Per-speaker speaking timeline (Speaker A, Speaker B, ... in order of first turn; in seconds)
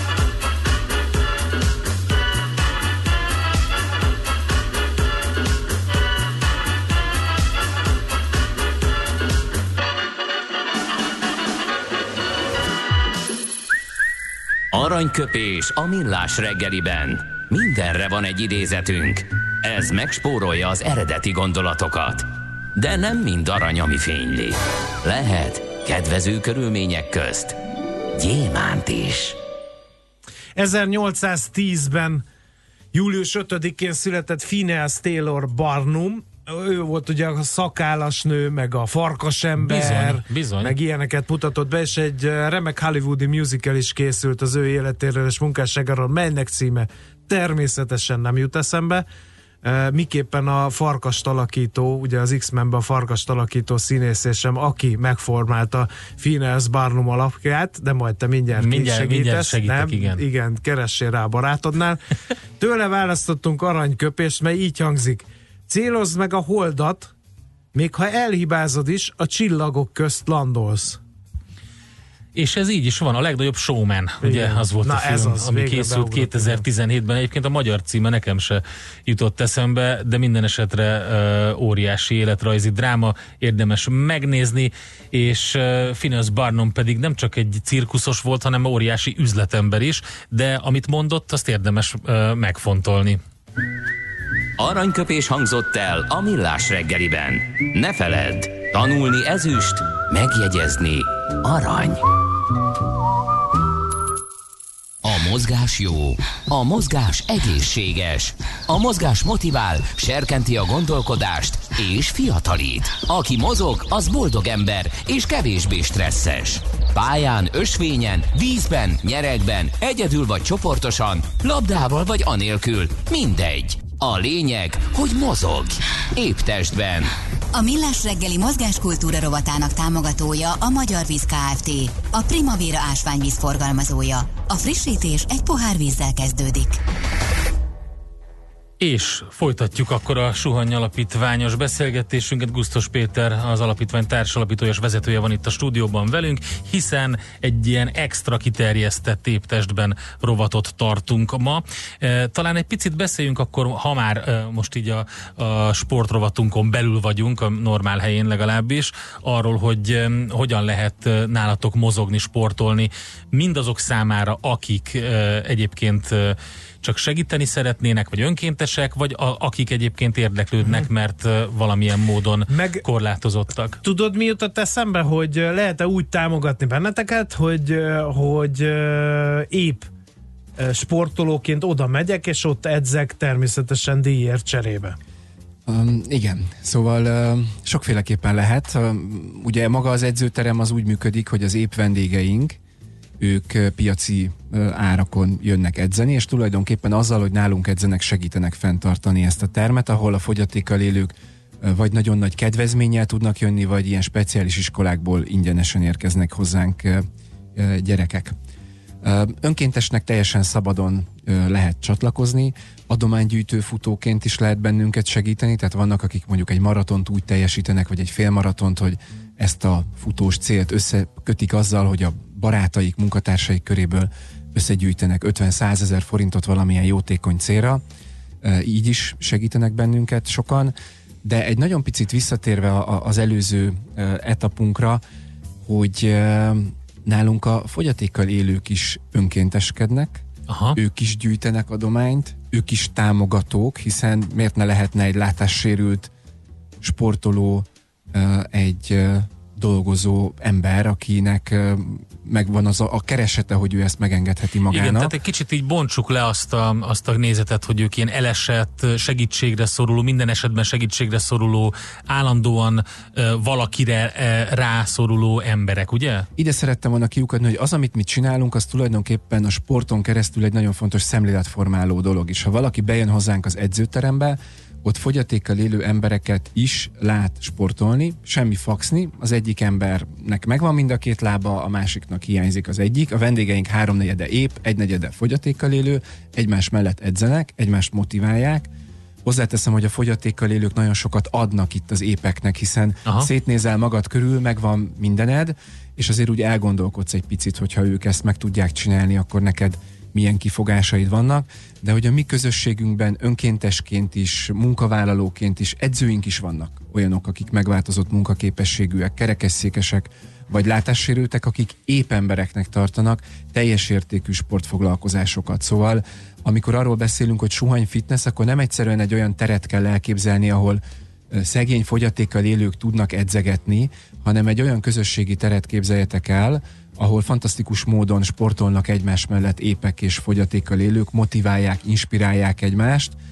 Speaker A: 14.7-27.6, 28.1-29.4, 94.6-102.0, 105.0-127.1
Speaker B: 30.6-32.2, 32.9-49.0, 49.6-62.0, 62.6-67.1, 67.7-71.0, 74.2-76.6, 172.5-172.8, 173.8-179.9, 180.6-185.0
Speaker C: 39.6-40.7, 58.6-60.2, 72.3-93.2, 138.8-173.8, 240.5-240.8, 254.7-266.3
Speaker D: 127.5-136.8
Speaker E: 185.7-192.6, 193.2-207.0, 207.5-208.3, 209.0-227.8, 228.4-235.0, 235.6-240.2, 240.7-246.1, 246.8-255.1, 266.4-288.7, 289.2-320.8, 321.3-333.1